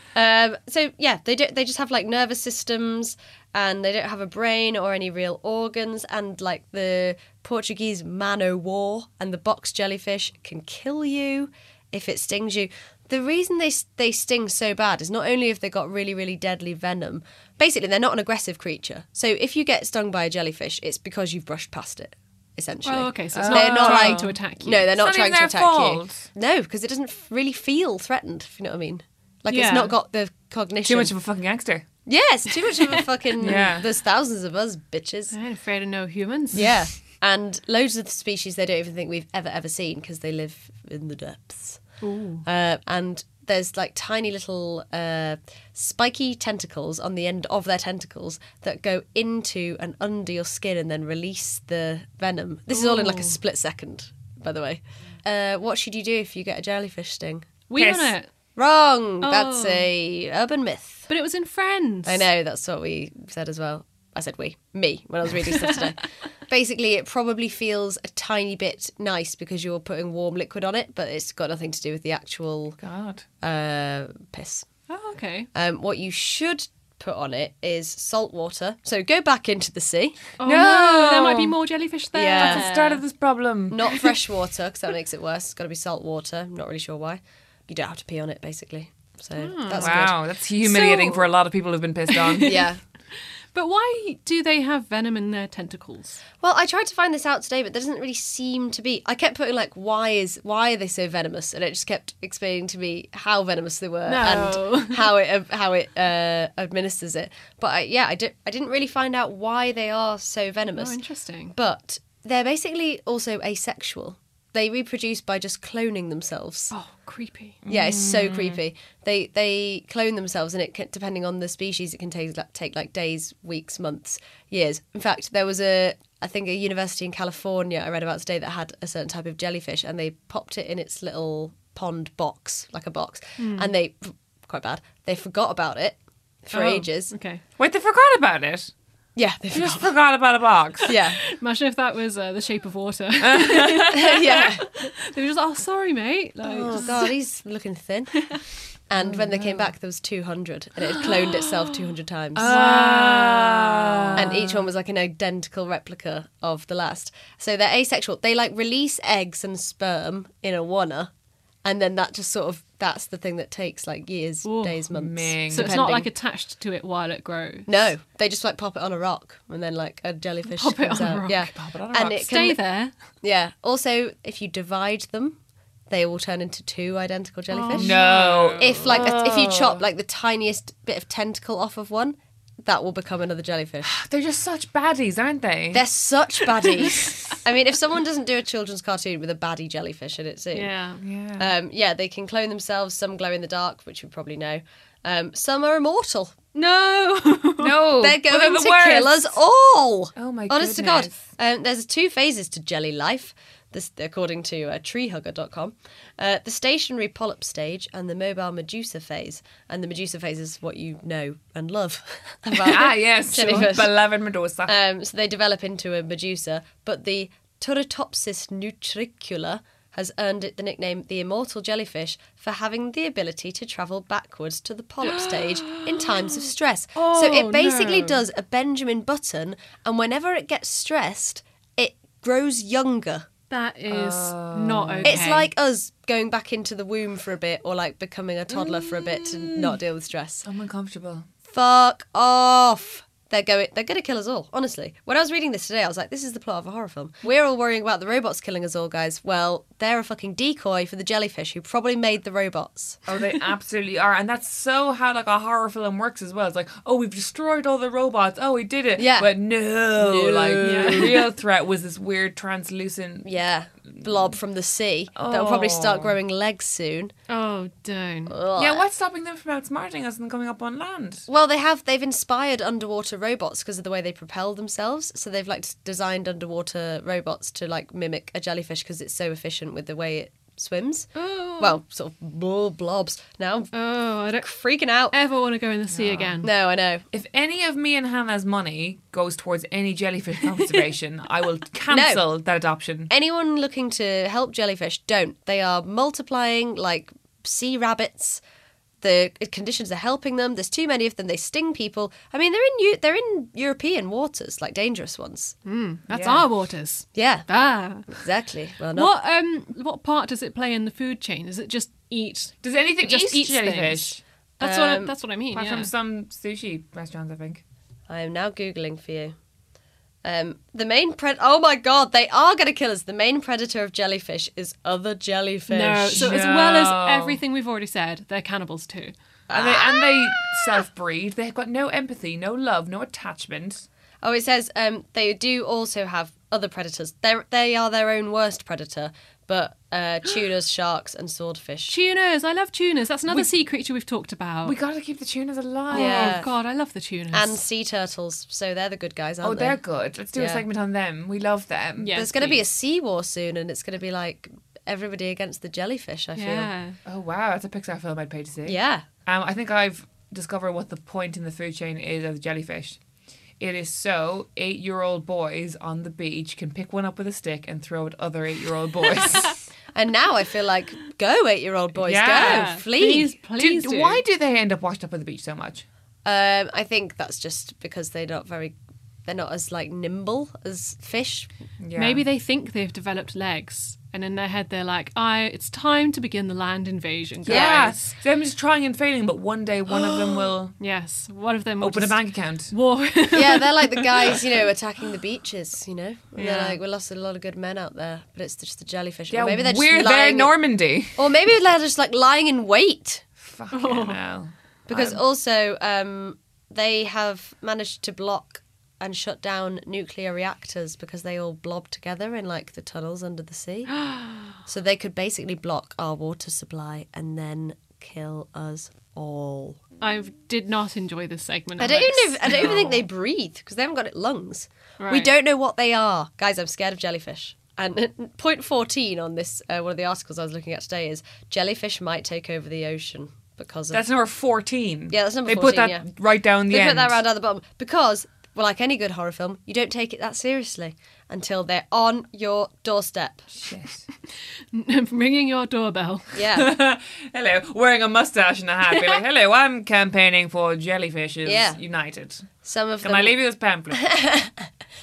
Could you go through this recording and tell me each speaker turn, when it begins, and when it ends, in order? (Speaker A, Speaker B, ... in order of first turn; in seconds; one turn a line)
Speaker A: 0.1-31.1
Speaker B: 22.8-24.9
Speaker C: 23.4-24.3
Speaker C: 25.0-26.3
Speaker B: 29.5-29.9
Speaker C: 30.9-31.9
Speaker A: 32.1-35.3
Speaker C: 33.4-33.9
Speaker B: 35.3-36.7
Speaker A: 36.5-41.8
Speaker B: 42.0-42.5
Speaker A: 42.5-57.5
Speaker B: 52.7-53.4
Speaker B: 57.7-58.3
Speaker C: 57.8-58.1
Speaker A: 58.6-61.1
Speaker B: 59.2-59.9
Speaker B: 61.1-62.2
Speaker A: 62.1-72.8
Speaker C: 72.8-73.2
Speaker A: 73.4-74.7
Speaker B: 74.9-75.5
Speaker A: 75.5-80.2
Speaker B: 80.4-83.0
Speaker C: 80.4-81.6
Speaker A: 82.1-82.7
Speaker C: 82.4-84.0
Speaker A: 83.7-90.2
Speaker B: 89.4-90.1
Speaker C: 89.8-92.6
Speaker B: 90.6-91.3
Speaker B: 92.1-92.6
Speaker A: 92.5-92.8
Speaker B: 93.5-96.2
Speaker A: 96.4-111.0
Speaker B: 104.0-105.1
Speaker B: 110.8-111.5
Speaker A: 111.5-116.7
Speaker B: 116.7-117.6
Speaker C: 117.7-118.6
Speaker A: 117.7-137.1
Speaker B: 133.4-133.7
Speaker B: 136.5-137.4
Speaker C: 137.6-138.7
Speaker A: 139.2-139.9
Speaker C: 139.5-140.9
Speaker A: 140.9-141.2
Speaker B: 141.2-147.1
Speaker C: 143.2-144.4
Speaker A: 143.9-144.9
Speaker A: 146.4-152.6
Speaker C: 152.4-154.4
Speaker B: 152.4-154.6
Speaker A: 154.2-161.1
Speaker A: 161.6-166.1
Speaker B: 164.4-164.8
Speaker C: 164.9-165.7
Speaker B: 165.5-167.9
Speaker A: 167.7-172.6
Speaker B: 170.5-171.5
Speaker C: 171.5-172.2
Speaker B: 172.2-172.9
Speaker A: 173.2-175.4
Speaker A: 175.9-178.0
Speaker B: 177.5-179.0
Speaker C: 177.8-179.8
Speaker A: 178.6-183.9
Speaker C: 183.8-185.9
Speaker A: 185.7-190.7
Speaker B: 190.5-191.0
Speaker C: 191.0-191.5
Speaker A: 191.4-196.4
Speaker B: 196.5-197.7
Speaker C: 197.6-199.4
Speaker A: 198.0-214.0
Speaker C: 200.2-201.2
Speaker C: 212.6-214.7
Speaker A: 214.7-233.3
Speaker B: 225.0-226.4
Speaker B: 226.9-228.2
Speaker B: 233.5-235.5
Speaker C: 233.9-235.2
Speaker A: 235.0-240.5
Speaker C: 238.5-239.8
Speaker C: 240.4-241.3
Speaker A: 241.5-253.0
Speaker C: 253.1-263.3
Speaker A: 259.0-259.3
Speaker A: 259.9-261.3
Speaker B: 260.6-261.2
Speaker A: 263.2-267.1
Speaker C: 263.9-264.3
Speaker C: 265.1-266.1
Speaker B: 267.3-268.4
Speaker A: 268.3-268.9
Speaker C: 268.6-271.3
Speaker A: 271.3-283.7
Speaker B: 281.1-281.8
Speaker B: 283.7-284.5
Speaker A: 284.4-285.1
Speaker B: 285.1-286.5
Speaker C: 285.9-286.4
Speaker A: 286.4-287.0
Speaker C: 287.1-293.1
Speaker A: 291.9-292.2
Speaker A: 293.1-298.4
Speaker A: 299.0-305.6
Speaker B: 305.6-308.1
Speaker C: 306.1-306.4
Speaker A: 307.1-307.5
Speaker A: 308.1-309.1
Speaker B: 308.9-315.9
Speaker C: 312.6-314.2
Speaker A: 314.6-315.1
Speaker C: 315.5-317.6
Speaker A: 318.1-319.3
Speaker A: 320.2-326.3
Speaker B: 325.7-329.1
Speaker C: 326.1-327.4
Speaker A: 329.5-330.4
Speaker C: 329.5-333.9
Speaker A: 334.2-341.9
Speaker B: 341.9-344.8
Speaker C: 344.6-346.4
Speaker B: 345.9-347.6
Speaker A: 345.9-346.5
Speaker A: 347.3-349.8
Speaker C: 349.4-352.6
Speaker A: 350.4-350.6
Speaker B: 352.0-352.5
Speaker A: 352.1-356.7
Speaker B: 356.4-357.0
Speaker C: 357.1-363.0
Speaker A: 358.7-359.1
Speaker C: 363.6-369.6
Speaker A: 369.9-373.4
Speaker C: 372.0-372.8
Speaker B: 372.3-374.2
Speaker C: 373.6-375.9
Speaker A: 376.2-378.8
Speaker A: 379.3-381.5
Speaker C: 381.8-382.2
Speaker B: 382.0-388.1
Speaker A: 387.4-387.9
Speaker C: 387.5-390.7
Speaker B: 389.9-392.2
Speaker C: 391.8-392.7
Speaker B: 392.7-394.4
Speaker A: 393.3-400.5
Speaker B: 396.4-396.8
Speaker C: 399.3-401.3
Speaker A: 401.2-403.2
Speaker C: 403.4-405.2
Speaker B: 403.7-404.2
Speaker A: 404.9-414.0
Speaker B: 413.9-414.5
Speaker A: 414.7-419.8
Speaker B: 420.0-423.0
Speaker A: 421.8-434.0
Speaker B: 425.0-425.3
Speaker C: 433.9-437.2
Speaker A: 435.1-436.1
Speaker A: 436.7-443.5
Speaker C: 443.5-444.0
Speaker B: 444.7-446.3
Speaker A: 446.4-446.7
Speaker C: 446.5-452.5
Speaker B: 448.9-449.2
Speaker A: 451.5-451.8
Speaker A: 452.6-453.3
Speaker C: 453.0-454.0
Speaker A: 453.9-454.7